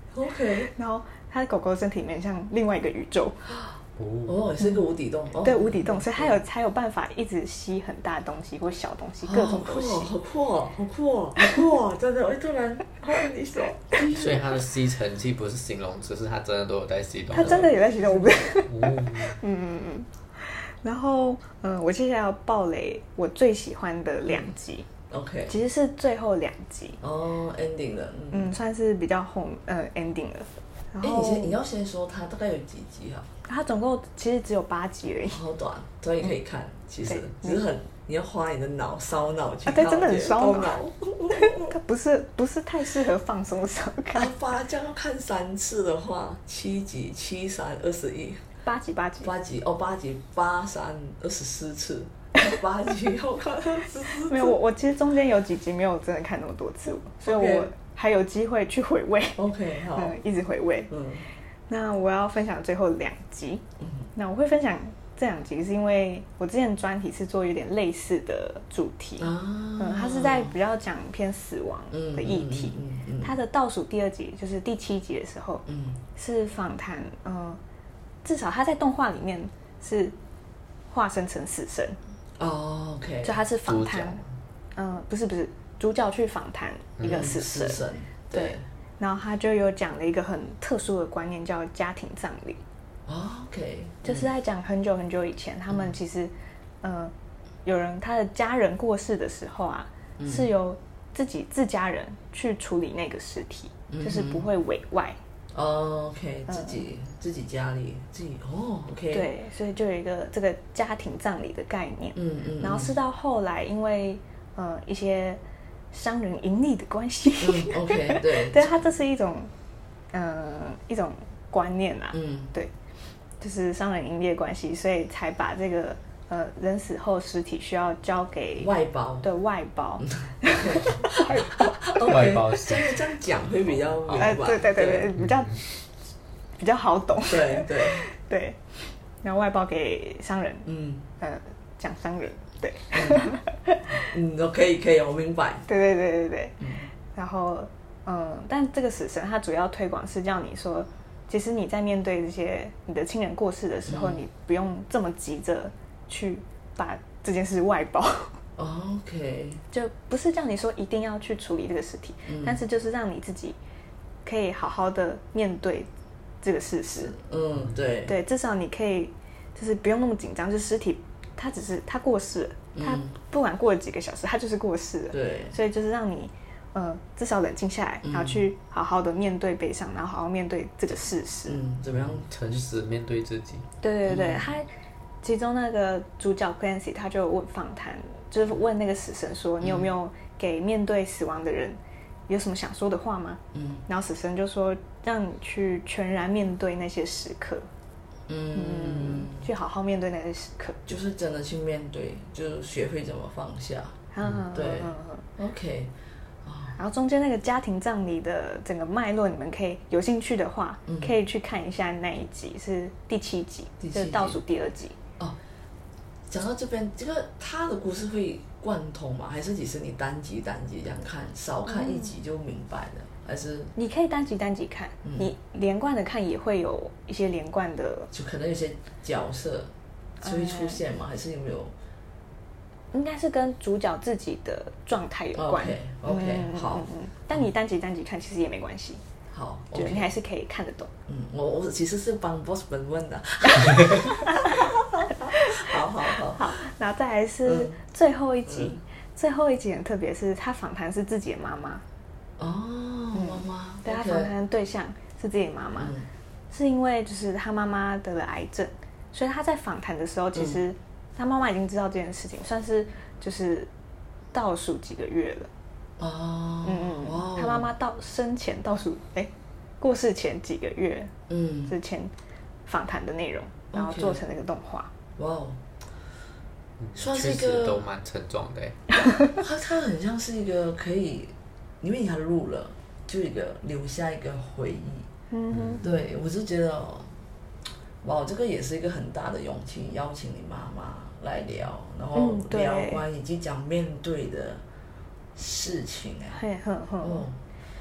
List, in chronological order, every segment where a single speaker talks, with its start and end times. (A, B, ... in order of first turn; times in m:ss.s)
0:00.1-0:00.7 A
0:00.6-0:03.5 B
0:04.0-0:04.4 C
0:04.3-0:06.4 A
0:05.4-0:10.1 B
0:09.2-0:14.4 A
0:14.1-0:17.8 C
0:17.3-0:24.9 B
0:17.4-0:18.3 A
0:18.5-0:19.4 C
0:25.1-0:25.6 A
0:25.5-0:27.0 B
0:27.0-0:28.5 A
0:28.3-0:31.6 B
0:31.0-0:33.3 A
0:33.5-0:35.4 B
0:35.3-0:41.8 A
0:37.1-0:37.6 B
0:39.7-0:40.8 B
0:41.3-0:44.3 B
0:44.1-0:48.4 A
0:48.6-0:49.3 B
0:49.2-0:54.6 A
0:54.1-0:59.4 B
0:57.2-0:57.7 A
0:59.4-1:00.2 A
0:59.9-1:00.9 B
1:00.9-1:01.3 A
1:01.7-1:03.6 B
1:03.8-1:04.1 A
1:04.2-1:15.6 B
1:09.2-1:10.5 A
1:11.9-1:13.4 A
1:15.7-1:16.0 A
1:16.2-1:17.6 B
1:18.2-1:20.2 B
1:20.9-1:22.0 B
1:22.4-1:23.4 A
1:23.2-1:24.2 B
1:23.7-1:24.2 C
1:24.8-1:32.6 B
1:27.0-1:27.3 C
1:27.0-1:28.6 A
1:33.1-1:34.3 A
1:34.0-1:37.1 B
1:37.6-1:45.2 B
1:40.2-1:40.5 A
1:43.9-1:44.5 A
1:45.5-1:49.3 A
1:46.5-1:46.8 B
1:49.1-1:55.4 B
1:52.2-1:52.9 A
1:55.9-1:59.5 B
1:57.4-1:58.8 A
2:00.1-2:02.7 B
2:02.1-2:02.5 A
2:03.4-2:08.7 B
2:08.6-2:09.3 A
2:09.2-2:12.1 B
2:10.1-2:15.1 A
2:12.0-2:13.0 C
2:14.2-2:15.9 B
2:16.6-2:20.7 B
2:17.3-2:18.1 A
2:20.7-2:21.0 A
2:21.2-2:24.1 B
2:22.9-2:23.3 A
2:24.0-2:25.7 A
2:25.7-2:26.6 B
2:26.6-2:26.9 A
2:27.1-2:38.4 B
2:33.9-2:34.2 A
2:38.6-2:39.6 A
2:39.7-2:43.6 B
2:42.3-2:42.6 A
2:44.2-2:45.9 B
2:46.4-2:47.2 B
2:47.1-2:48.2 A
2:48.1-3:01.6 B
2:52.8-2:53.1 A
2:55.1-2:55.6 A
2:58.0-2:58.4 A
3:01.5-3:02.3 A
3:02.0-3:03.7 C
3:03.8-3:04.7 B
3:04.1-3:04.5 A
3:05.2-3:17.7 B
3:09.6-3:09.9 A
3:13.5-3:13.8 A
3:18.3-3:19.5 A
3:18.5-3:20.9 B
3:20.9-3:24.0 A
3:24.1-3:25.2 B
3:24.5-3:25.9 A
3:26.4-3:26.8 A
3:26.8-3:35.0 B
3:30.9-3:31.1 A
3:33.8-3:34.4 A
3:36.3-3:43.7 A
3:41.7-3:42.1 B
3:43.8-3:48.1 B
3:45.0-3:45.3 A
3:48.1-3:49.7 A
3:50.2-3:50.8 B
3:50.2-3:51.7 A
3:52.9-3:59.0 B
3:55.4-3:56.9 A
3:59.3-4:00.1 A
3:59.7-4:00.9 B
4:01.1-4:06.6 A
4:04.2-4:11.8 B
4:07.4-4:07.8 A
4:08.5-4:08.8 A
4:12.4-4:14.3 A
4:13.1-4:16.0 B
4:15.8-4:16.1 A
4:16.5-4:23.7 B
4:24.3-4:25.5 B
4:26.0-4:27.7 A
4:26.6-4:31.2 B
4:31.3-4:31.7 A
4:31.7-4:32.1 B
4:32.7-4:34.9 B
4:33.7-4:34.2 A
4:35.2-4:35.6 A
4:36.8-4:38.8 C
4:37.0-4:37.8 A
4:39.3-4:45.1 A
4:45.3-4:45.8 B
4:45.5-4:45.9 C
4:45.8-4:47.1 A
4:48.0-4:54.6 A
4:52.2-4:53.0 B
4:55.4-4:56.4 A
4:56.3-4:57.3 B
4:57.0-4:57.4 A